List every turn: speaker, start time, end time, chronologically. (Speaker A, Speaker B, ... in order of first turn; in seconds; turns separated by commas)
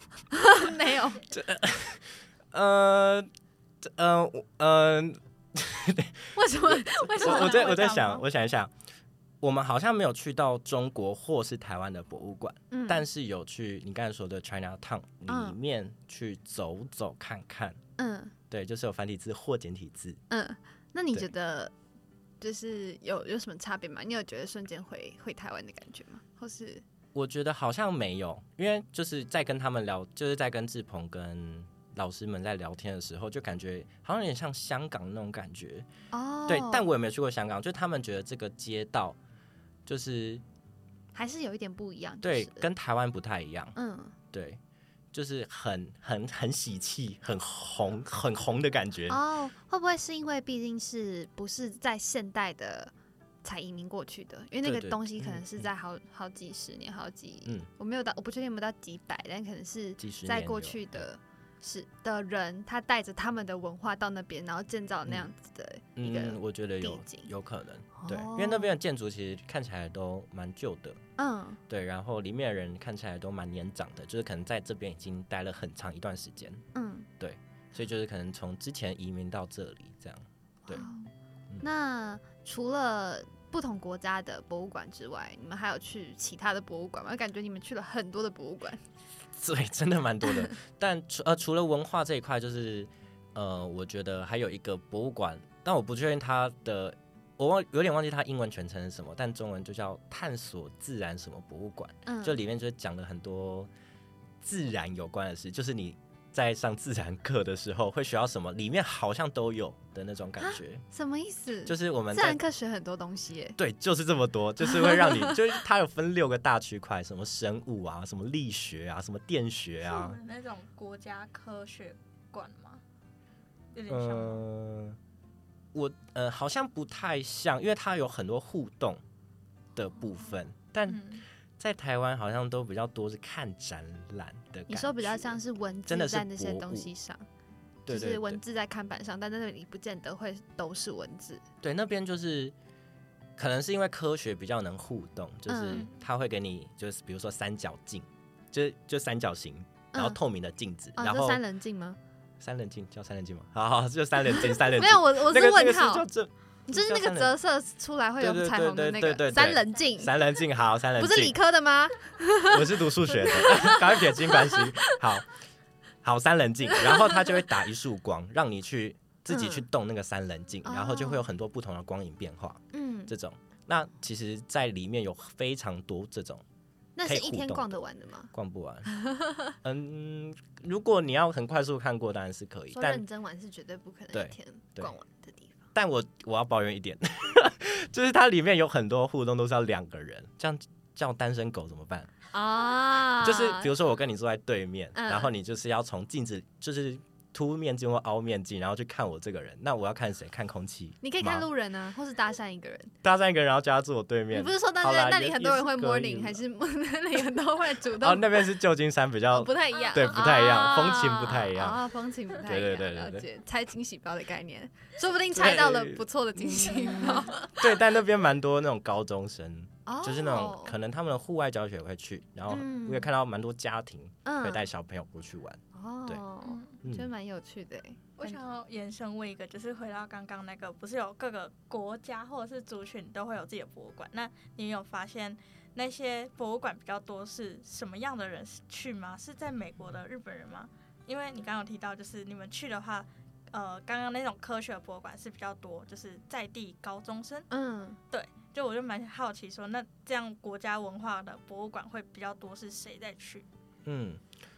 Speaker A: 0.3-1.3, Speaker B: 1.3-3.3, Speaker B: 3.8-8.7, Speaker A: 6.3-8.0, Speaker C: 7.2-8.2, Speaker B: 9.4-17.8, Speaker A: 12.7-13.1, Speaker A: 15.3-15.6, Speaker A: 18.0-18.3, Speaker B: 18.5-20.2, Speaker A: 20.3-21.7, Speaker A: 22.4-26.8, Speaker B: 27.1-35.9, Speaker A: 36.1-36.9, Speaker B: 36.5-39.2, Speaker B: 39.9-40.4, Speaker A: 41.1-42.6, Speaker B: 42.2-43.7, Speaker A: 43.8-44.1, Speaker B: 44.3-44.6, Speaker B: 45.1-49.2, Speaker A: 49.1-52.9, Speaker A: 53.4-67.3, Speaker B: 54.6-55.7, Speaker B: 60.0-61.0, Speaker B: 66.0-71.0, Speaker A: 67.9-68.7, Speaker A: 71.2-71.6, Speaker B: 71.7-76.6, Speaker A: 76.7-77.1, Speaker B: 77.2-80.8, Speaker A: 80.7-81.1, Speaker A: 81.6-88.8, Speaker B: 89.3-103.7, Speaker A: 102.0-102.4, Speaker B: 104.4-110.8, Speaker A: 110.4-113.6, Speaker B: 111.6-112.4, Speaker B: 113.6-120.2, Speaker A: 114.6-115.3, Speaker C: 119.8-122.8, Speaker C: 123.7-124.4, Speaker B: 123.9-125.0, Speaker B: 125.7-129.0, Speaker B: 129.7-136.9, Speaker C: 130.9-131.2, Speaker A: 134.7-137.2, Speaker B: 137.8-138.4, Speaker A: 137.9-141.4, Speaker B: 141.6-142.5, Speaker B: 143.4-151.4, Speaker A: 145.5-145.9, Speaker A: 149.9-150.2, Speaker A: 150.9-152.0, Speaker B: 152.4-157.3, Speaker A: 154.3-156.1, Speaker A: 156.7-160.2, Speaker B: 158.2-161.4, Speaker A: 161.0-165.0, Speaker B: 162.5-165.3, Speaker B: 166.0-176.4, Speaker A: 166.7-167.3, Speaker A: 169.3-169.7, Speaker A: 170.6-171.2, Speaker A: 172.7-173.1, Speaker A: 176.9-178.3, Speaker B: 177.0-177.8, Speaker B: 178.3-178.9, Speaker A: 178.9-179.5, Speaker B: 179.6-183.0, Speaker A: 182.7-185.6, Speaker B: 184.1-184.9, Speaker B: 185.7-192.1, Speaker A: 192.3-193.7, Speaker B: 193.1-201.5, Speaker A: 194.9-195.3, Speaker A: 201.0-202.9, Speaker B: 203.0-206.4, Speaker A: 204.3-208.6, Speaker B: 208.0-211.8, Speaker A: 209.3-217.6, Speaker B: 212.4-213.3, Speaker B: 215.3-226.2, Speaker A: 219.8-220.7, Speaker A: 222.5-223.1, Speaker A: 224.2-224.6, Speaker A: 225.7-228.4, Speaker C: 226.4-226.7, Speaker B: 226.8-227.1, Speaker C: 228.2-247.5, Speaker A: 247.5-248.0, Speaker C: 248.1-253.4, Speaker B: 253.8-254.2